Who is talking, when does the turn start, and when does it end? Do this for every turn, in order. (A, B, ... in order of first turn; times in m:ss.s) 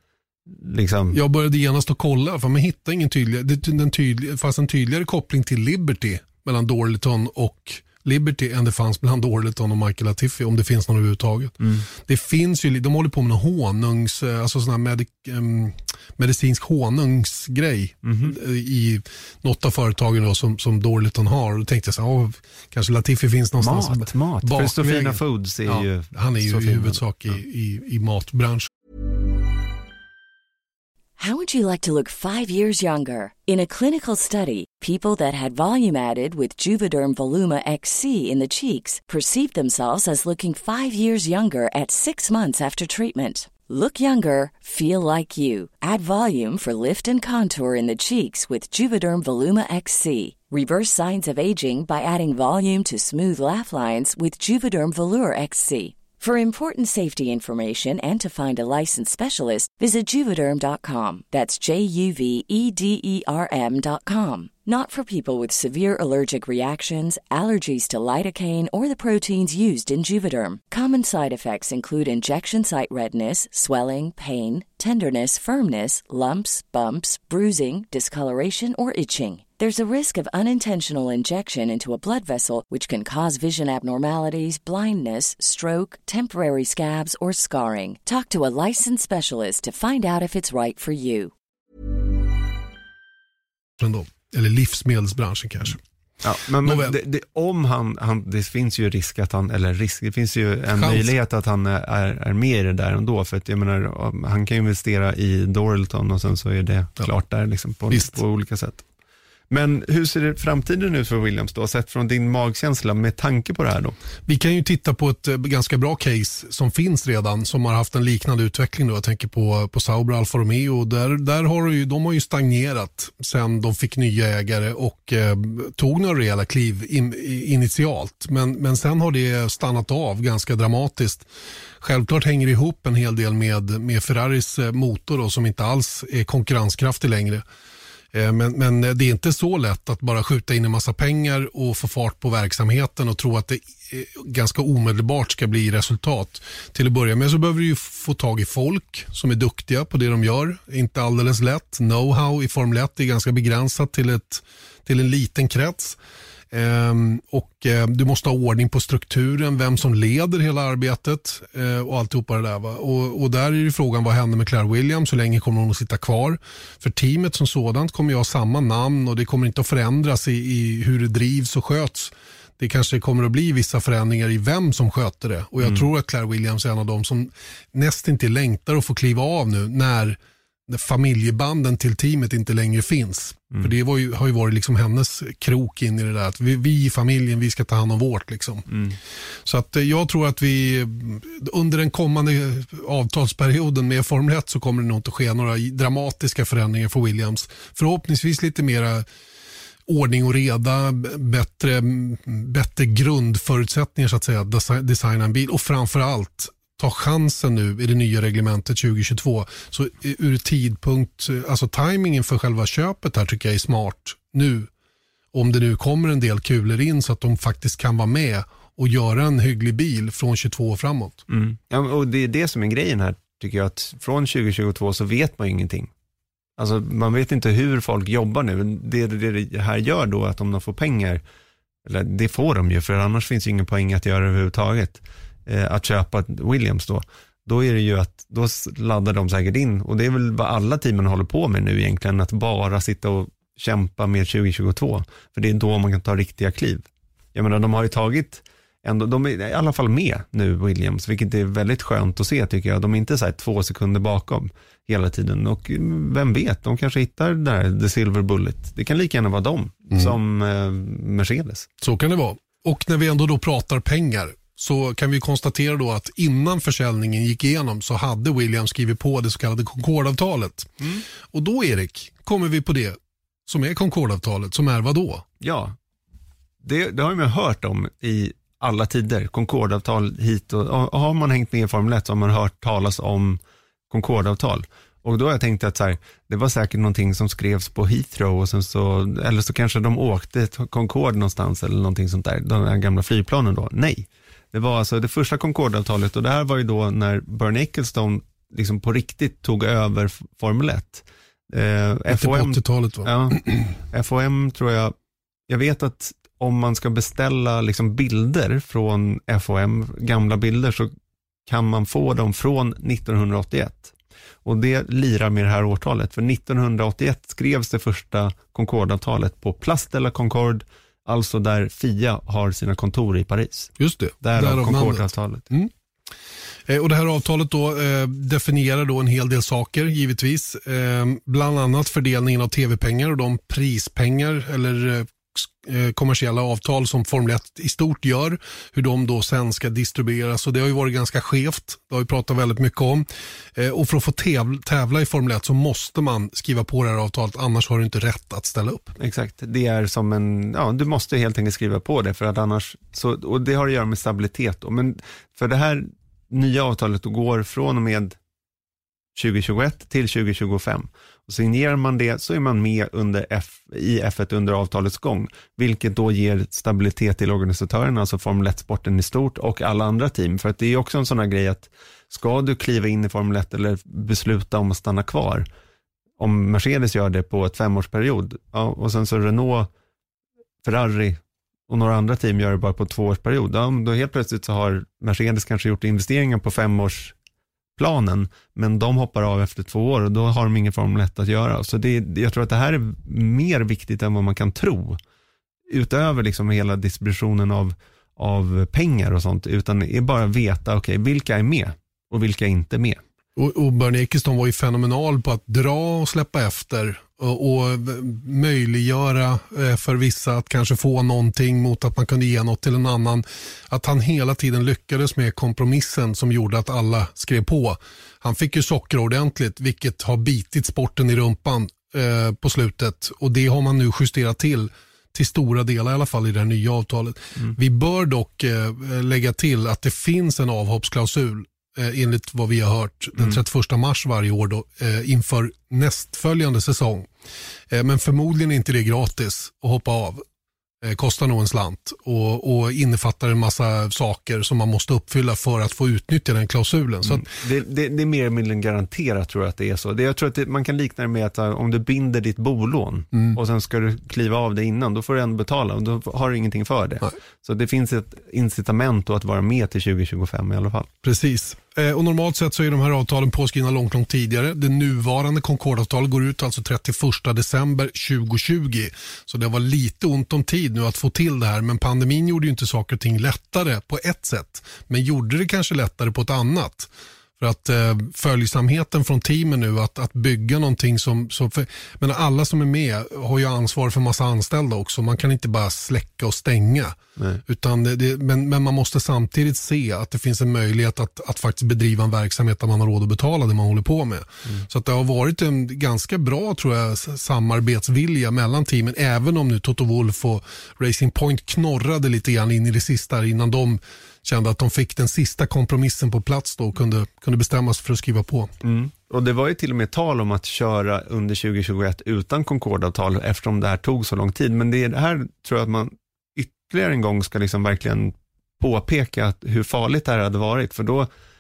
0:00.5-0:01.2 A
0:01.1-0:28.7 B
0:11.6-0:11.8 A
0:18.0-0:18.4 A
0:23.6-0:27.0 A
0:31.2-1:31.3 C
1:33.8-1:35.8 B
1:36.2-1:48.8 A
1:36.6-1:36.9 B
1:40.8-1:41.1 B
1:49.5-1:53.9 A
1:54.2-2:11.3 B
2:11.8-2:17.4 B
2:18.1-2:36.0 B
2:36.5-3:08.7 B
3:09.4-3:19.0 B
3:19.8-3:34.7 B
3:35.3-3:41.2 B
3:41.3-3:45.9 A
3:46.6-3:51.2 A
3:51.8-4:21.7 A
4:21.8-4:35.2 B
4:35.4-4:35.8 A
4:36.6-5:04.9 A
5:02.1-5:03.7 B
5:05.5-5:10.9 A
5:11.5-5:13.9 A
5:14.4-5:25.5 A
5:23.8-5:25.7 B
5:26.7-5:48.9 B
5:49.0-5:58.2 A
5:59.2-6:15.5 A
6:16.2-6:19.7 A
6:20.6-6:27.1 A
6:27.8-6:35.0 A
6:35.7-6:43.0 A
6:43.4-7:17.1 B
7:17.7-7:20.2 B
7:20.8-7:27.3 B
7:27.0-7:40.9 A
7:41.0-8:28.5 B
8:28.6-8:41.1 A